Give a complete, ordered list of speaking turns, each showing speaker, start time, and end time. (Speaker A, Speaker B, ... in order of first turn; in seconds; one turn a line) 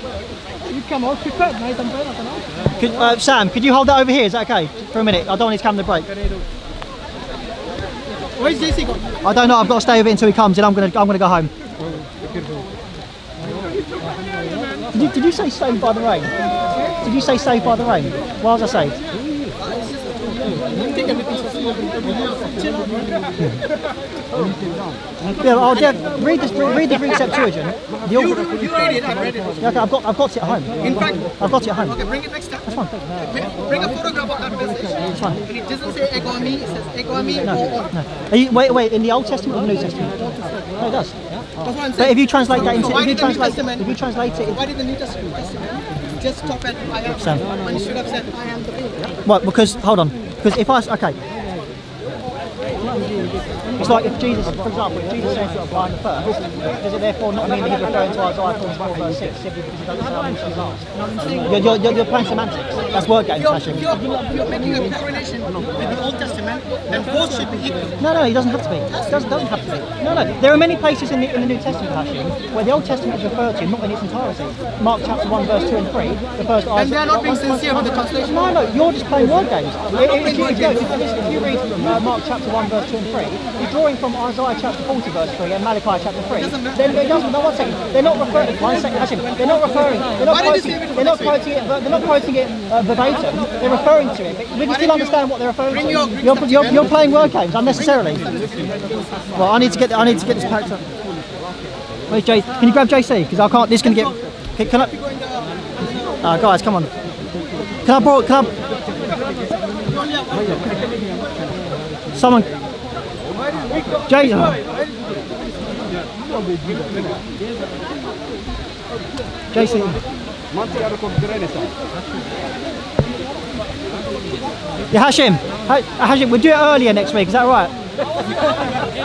Speaker A: 0.7-3.1
Speaker B: 2.8-6.1
Speaker A: 8.4-9.0
Speaker B: 9.2-11.5
Speaker B: 14.9-16.3
Speaker B: 17.0-19.0
Speaker A: 19.7-23.6
Speaker B: 25.3-28.4
Speaker A: 28.1-29.7
Speaker B: 29.6-32.0
Speaker A: 30.8-37.8
Speaker B: 32.7-33.0
Speaker B: 35.1-35.4
Speaker B: 37.4-41.2
Speaker A: 40.3-40.8
Speaker A: 41.6-43.9
Speaker B: 41.8-44.6
Speaker A: 44.5-49.1
Speaker B: 47.1-47.4
Speaker B: 49.2-51.2
Speaker B: 53.8-64.0
Speaker A: 61.0-61.9
Speaker A: 63.2-68.0
Speaker B: 68.0-98.2
Speaker A: 68.9-69.6
Speaker A: 76.7-78.5
Speaker A: 79.9-81.0
Speaker A: 86.4-86.9
Speaker A: 90.2-91.4
Speaker A: 94.6-97.1
Speaker A: 97.7-99.4
Speaker B: 99.3-100.8
Speaker B: 102.1-104.9
Speaker A: 104.8-105.9
Speaker B: 106.2-106.9
Speaker B: 107.8-108.5
Speaker A: 109.9-111.0
Speaker B: 112.2-112.5
Speaker B: 114.0-114.6
Speaker B: 119.5-120.0
Speaker B: 124.9-127.7